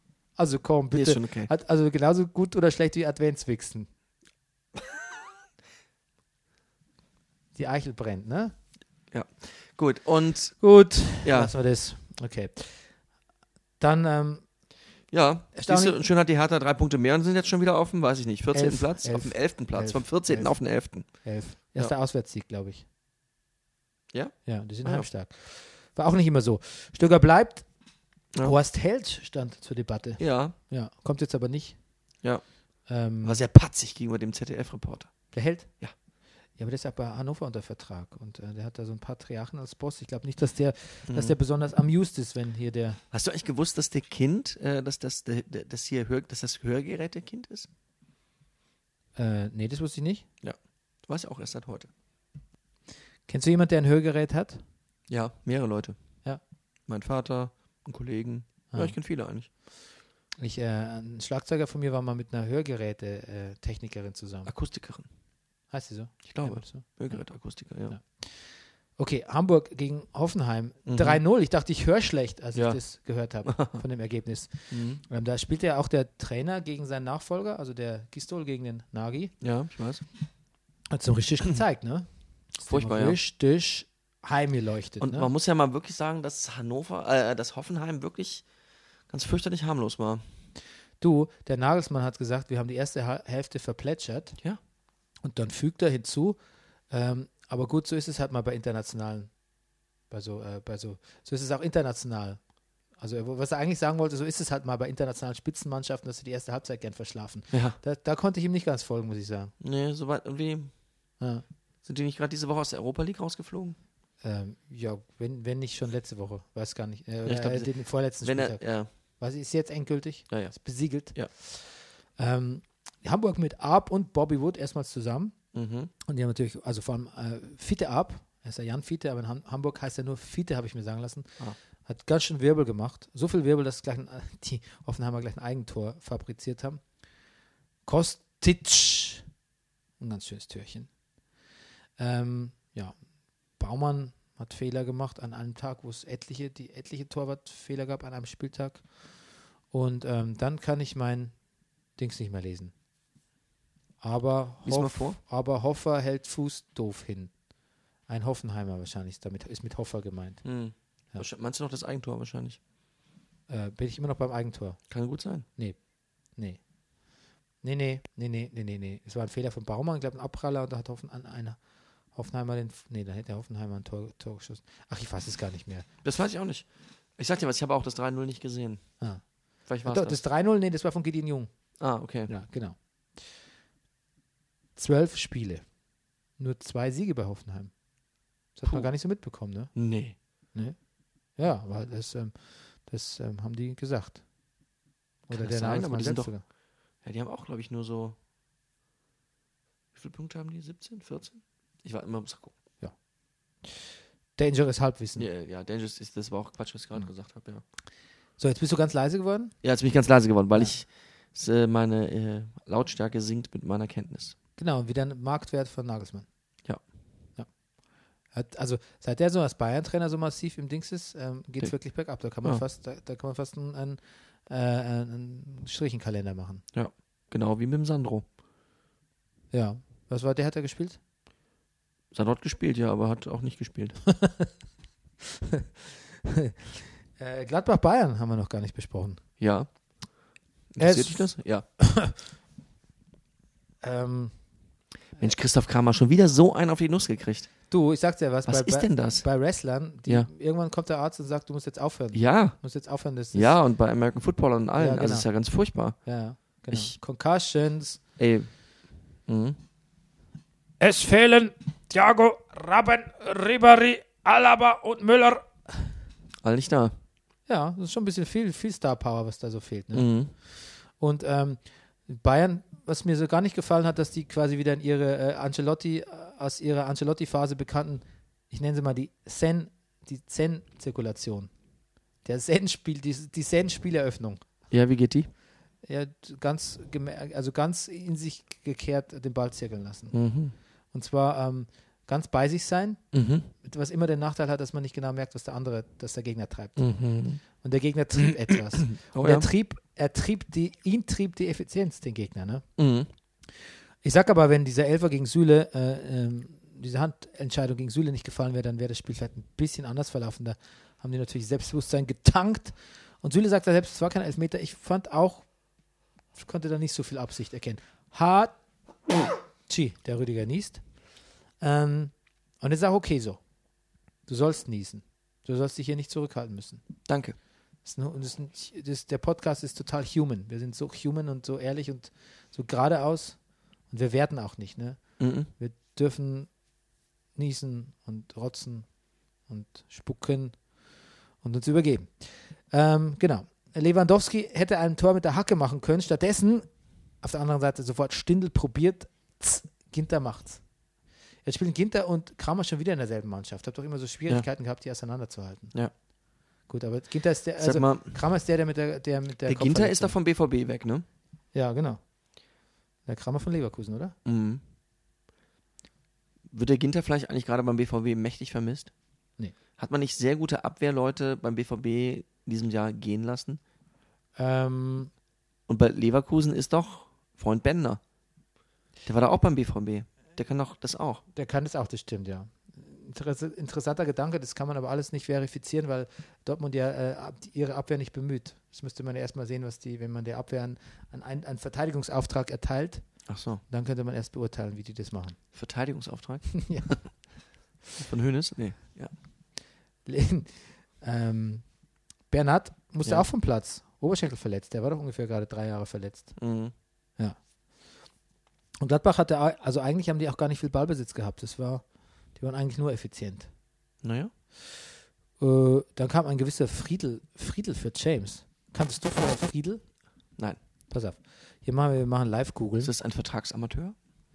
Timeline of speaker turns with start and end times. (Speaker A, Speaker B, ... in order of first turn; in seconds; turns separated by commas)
Speaker A: 0.3-3.9, Speaker B: 0.9-1.5, Speaker A: 7.5-8.5, Speaker B: 9.1-10.6, Speaker A: 10.6-12.9, Speaker B: 11.2-11.5, Speaker A: 13.8-14.4, Speaker B: 15.1-21.1, Speaker A: 15.5-16.0, Speaker A: 18.5-22.8, Speaker B: 24.1-25.1, Speaker A: 24.4-27.6, Speaker A: 28.4-31.8, Speaker B: 30.2-30.5, Speaker A: 32.9-33.4, Speaker B: 33.2-35.1, Speaker A: 35.3-35.7, Speaker A: 36.6-43.0, Speaker B: 41.1-41.3, Speaker B: 43.1-47.7, Speaker A: 49.1-50.2, Speaker B: 50.4-51.9, Speaker A: 53.3-54.6, Speaker B: 55.1-56.0, Speaker B: 56.9-59.5, Speaker A: 60.4-64.5, Speaker B: 64.4-65.1, Speaker A: 65.7-67.2, Speaker B: 66.2-68.0, Speaker A: 67.9-79.3, Speaker B: 70.8-71.2, Speaker B: 73.5-73.8, Speaker B: 74.7-75.0, Speaker B: 79.4-80.0, Speaker A: 80.9-85.3, Speaker B: 82.6-83.2, Speaker B: 85.0-88.4, Speaker B: 89.1-90.2, Speaker A: 91.0-94.4, Speaker A: 95.2-96.4, Speaker A: 96.9-99.3, Speaker A: 100.1-102.4, Speaker A: 103.0-109.5, Speaker B: 107.5-107.8, Speaker B: 109.6-110.7, Speaker B: 111.8-113.8, Speaker A: 114.2-118.6, Speaker B: 117.2-117.7, Speaker B: 118.2-118.9, Speaker A: 119.2-125.3, Speaker B: 125.5-125.9, Speaker A: 126.0-136.8, Speaker A: 137.8-139.2, Speaker A: 140.0-140.9, Speaker A: 142.0-142.9, Speaker A: 143.6-148.9, Speaker A: 149.7-151.3, Speaker A: 152.0-152.7, Speaker A: 154.0-157.3, Speaker B: 154.6-155.2, Speaker A: 158.1-160.4, Speaker B: 160.4-162.6, Speaker A: 163.5-164.8, Speaker B: 164.9-165.4, Speaker A: 167.6-171.6, Speaker A: 172.1-175.9, Speaker B: 176.0-178.8, Speaker B: 179.7-180.2, Speaker A: 179.8-181.5, Speaker B: 181.8-182.3, Speaker A: 182.3-183.2, Speaker A: 184.8-185.6, Speaker A: 186.4-187.7, Speaker A: 188.5-189.7, Speaker B: 189.7-190.1, Speaker A: 191.4-194.2, Speaker A: 195.3-196.4, Speaker B: 195.3-196.3, Speaker B: 197.0-198.2, Speaker B: 199.9-202.5, Speaker A: 204.4-205.3, Speaker B: 205.2-207.6, Speaker A: 208.4-209.5, Speaker B: 209.6-214.3, Speaker A: 214.6-216.2, Speaker A: 218.3-226.6, Speaker B: 226.7-228.2, Speaker A: 229.5-231.0, Speaker B: 232.1-234.0, Speaker A: 234.1-234.5, Speaker A: 235.2-239.2, Speaker B: 239.4-239.7, Speaker B: 240.7-241.6, Speaker A: 240.8-242.2, Speaker A: 243.8-244.3, Speaker B: 245.2-247.5, Speaker A: 247.7-253.6, Speaker B: 248.5-249.2, Speaker B: 252.1-252.6, Speaker B: 253.3-256.0, Speaker A: 254.8-255.3, Speaker A: 256.0-258.0, Speaker B: 258.2-258.5, Speaker B: 259.3-259.6, Speaker A: 260.8-265.9, Speaker B: 266.4-266.9, Speaker A: 267.5-281.5, Speaker B: 269.9-270.3, Speaker A: 282.2-284.4, Speaker B: 284.7-285.3, Speaker A: 285.8-290.1, Speaker B: 290.1-290.5, Speaker A: 290.9-293.0, Speaker B: 293.1-293.5, Speaker A: 293.5-296.8, Speaker B: 296.8-297.4, Speaker A: 297.4-302.6, Speaker B: 298.2-299.5, Speaker B: 302.8-303.1, Speaker A: 304.0-315.5, Speaker A: 316.4-318.6, Speaker A: 319.6-320.8, Speaker A: 321.6-323.4, Speaker A: 324.3-326.8, Speaker B: 327.1-327.4, Speaker A: 327.8-333.4, Speaker A: 333.9-336.5, Speaker B: 335.2-335.5, Speaker A: 337.3-338.9, Speaker A: 339.5-340.6, Speaker A: 341.4-346.7, Speaker A: 347.2-350.6, Speaker A: 351.4-355.7, Speaker A: 356.7-360.1, Speaker B: 357.6-358.1, Speaker B: 359.4-361.1, Speaker A: 361.5-362.0, Speaker A: 363.1-364.1, Speaker B: 364.2-364.6, Speaker B: 366.5-368.9, Speaker B: 369.8-373.6, Speaker A: 374.4-375.1, Speaker B: 375.7-378.0, Speaker B: 379.1-381.2, Speaker A: 381.3-393.0, Speaker B: 393.3-393.6, Speaker A: 393.7-395.4, Speaker B: 395.5-396.5, Speaker A: 396.5-397.0, Speaker B: 397.9-399.1, Speaker A: 400.1-401.6, Speaker A: 402.3-406.3, Speaker B: 406.4-406.7, Speaker A: 408.8-411.8, Speaker A: 412.4-413.5, Speaker B: 414.0-414.3, Speaker A: 415.4-419.8, Speaker A: 420.9-422.9, Speaker B: 422.8-423.9